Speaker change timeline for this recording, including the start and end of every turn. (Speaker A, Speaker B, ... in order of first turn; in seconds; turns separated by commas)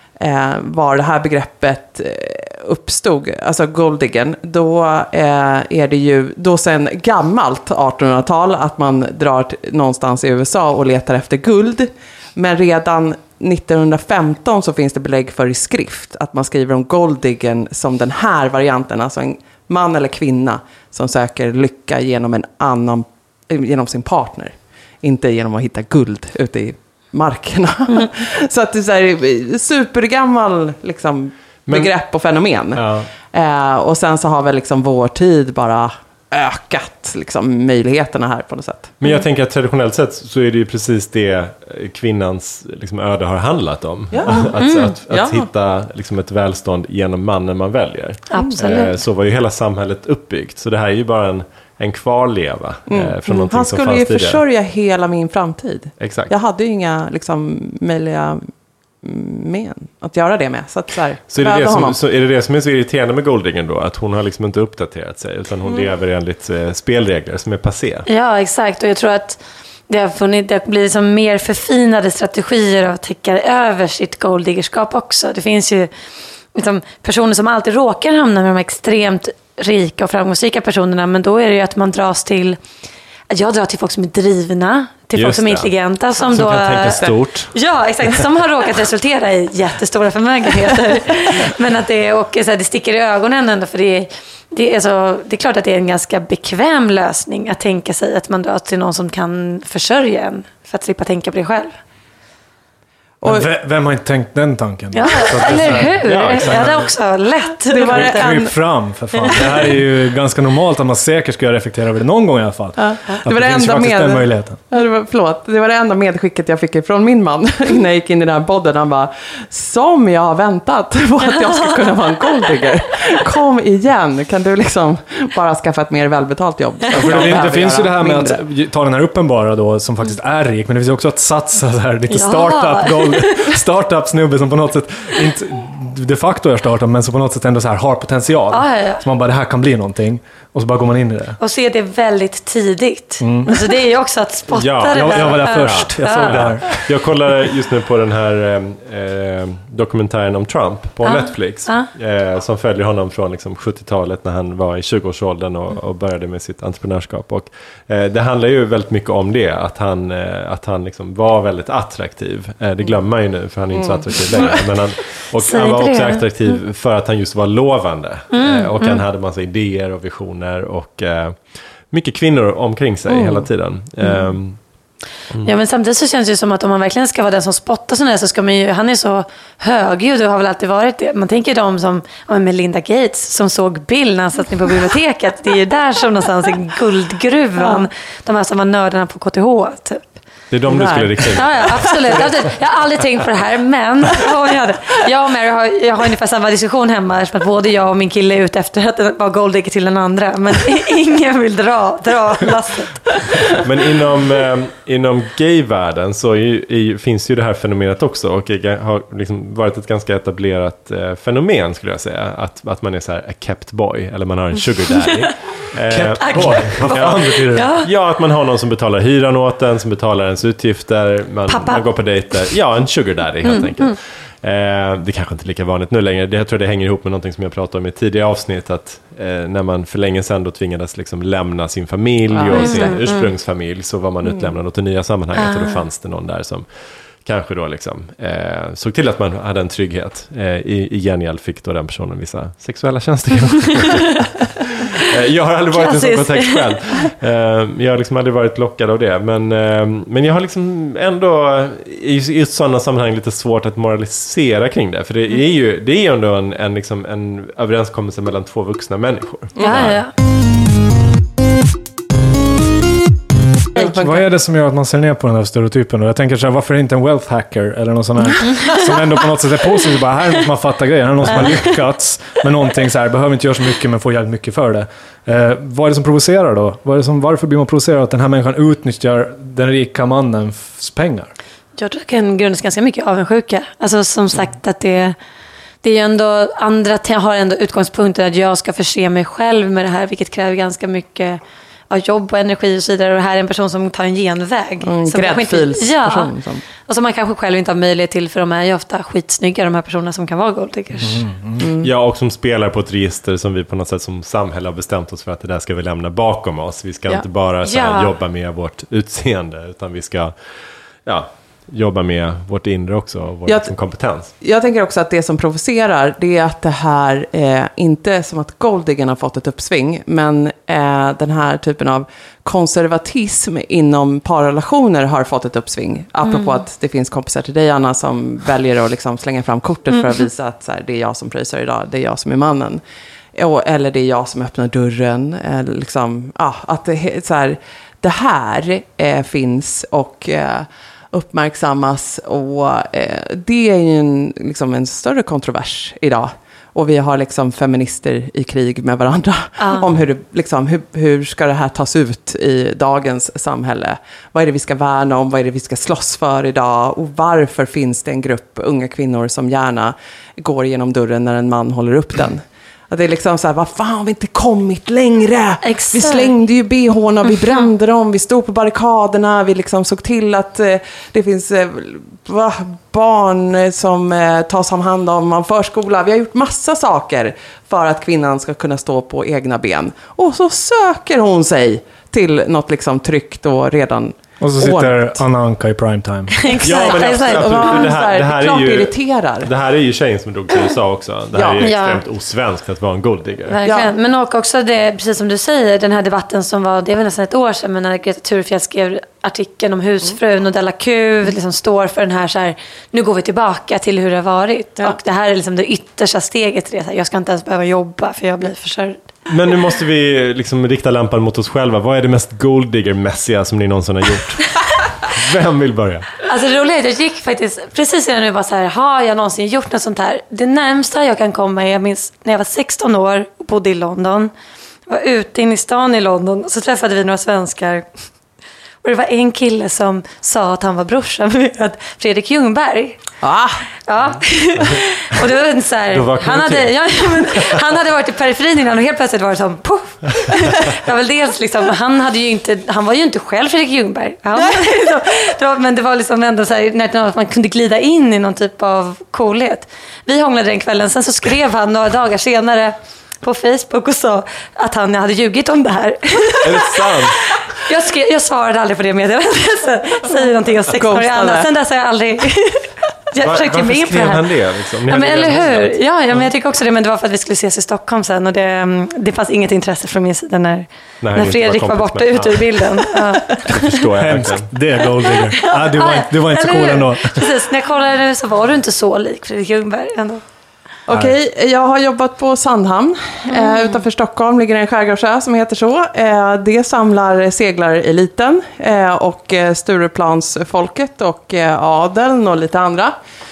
Speaker A: 0.2-39.0, Speaker B: 31.7-31.9, Speaker B: 32.8-33.1, Speaker B: 39.0-54.4, Speaker A: 44.1-45.5, Speaker C: 44.3-44.9, Speaker C: 48.3-48.9, Speaker A: 48.4-48.9, Speaker A: 52.9-58.5, Speaker B: 56.0-56.3, Speaker A: 59.0-62.0, Speaker B: 61.3-68.0, Speaker C: 68.1-75.9, Speaker C: 76.5-82.6, Speaker C: 83.3-101.8, Speaker B: 85.2-87.5, Speaker A: 103.2-103.5, Speaker D: 103.2-106.9, Speaker C: 104.9-108.4, Speaker B: 105.5-106.8, Speaker A: 107.7-108.5, Speaker D: 107.9-114.6, Speaker A: 112.8-128.4, Speaker D: 126.9-141.4, Speaker C: 132.1-133.4, Speaker C: 138.5-139.0, Speaker C: 141.4-146.4, Speaker D: 143.2-143.6, Speaker B: 144.5-174.6, Speaker D: 144.9-146.8, Speaker C: 151.0-151.9, Speaker A: 163.7-164.7, Speaker C: 165.4-166.6, Speaker C: 168.3-169.0, Speaker A: 173.1-173.5, Speaker C: 175.4-190.0, Speaker A: 187.6-187.8, Speaker B: 190.5-192.3, Speaker A: 190.7-191.4, Speaker C: 191.3-203.6, Speaker B: 203.5-236.7, Speaker D: 215.9-217.7, Speaker C: 216.2-216.6, Speaker C: 217.5-217.9, Speaker C: 221.5-221.8, Speaker C: 223.4-223.9, Speaker A: 232.3-233.1, Speaker C: 232.5-233.3, Speaker A: 234.2-234.5, Speaker C: 235.4-235.8, Speaker B: 237.2-260.0, Speaker C: 245.7-246.8, Speaker A: 259.6-259.8, Speaker C: 259.6-260.1, Speaker A: 263.7-264.2, Speaker D: 263.8-281.3, Speaker C: 281.8-285.2, Speaker C: 285.8-296.3, Speaker A: 294.8-296.6, Speaker C: 296.8-301.2, Speaker D: 301.0-301.6, Speaker A: 301.6-301.9, Speaker B: 301.8-310.3, Speaker C: 307.6-308.1, Speaker B: 311.0-314.3, Speaker A: 313.4-313.7, Speaker A: 314.3-332.8, Speaker C: 326.3-326.6, Speaker A: 333.3-385.2, Speaker C: 349.6-349.9, Speaker C: 365.6-366.3, Speaker D: 384.4-386.3, Speaker C: 386.3-387.9, Speaker B: 386.6-393.6, Speaker A: 386.8-389.5, Speaker A: 391.3-391.7, Speaker C: 391.6-392.0, Speaker C: 393.5-409.0, Speaker A: 393.6-393.9, Speaker B: 409.3-416.2, Speaker C: 416.2-424.3, Speaker C: 424.9-427.9, Speaker C: 428.8-433.0, Speaker A: 433.2-433.6, Speaker C: 433.8-456.9, Speaker B: 435.9-437.6, Speaker B: 456.4-457.3, Speaker C: 457.6-464.3, Speaker A: 460.7-461.5, Speaker B: 463.2-466.2, Speaker C: 464.9-473.8, Speaker B: 471.0-472.7, Speaker B: 473.4-474.5, Speaker D: 474.0-477.3, Speaker C: 475.0-480.2, Speaker A: 480.9-492.9, Speaker B: 480.9-481.1, Speaker C: 483.3-483.7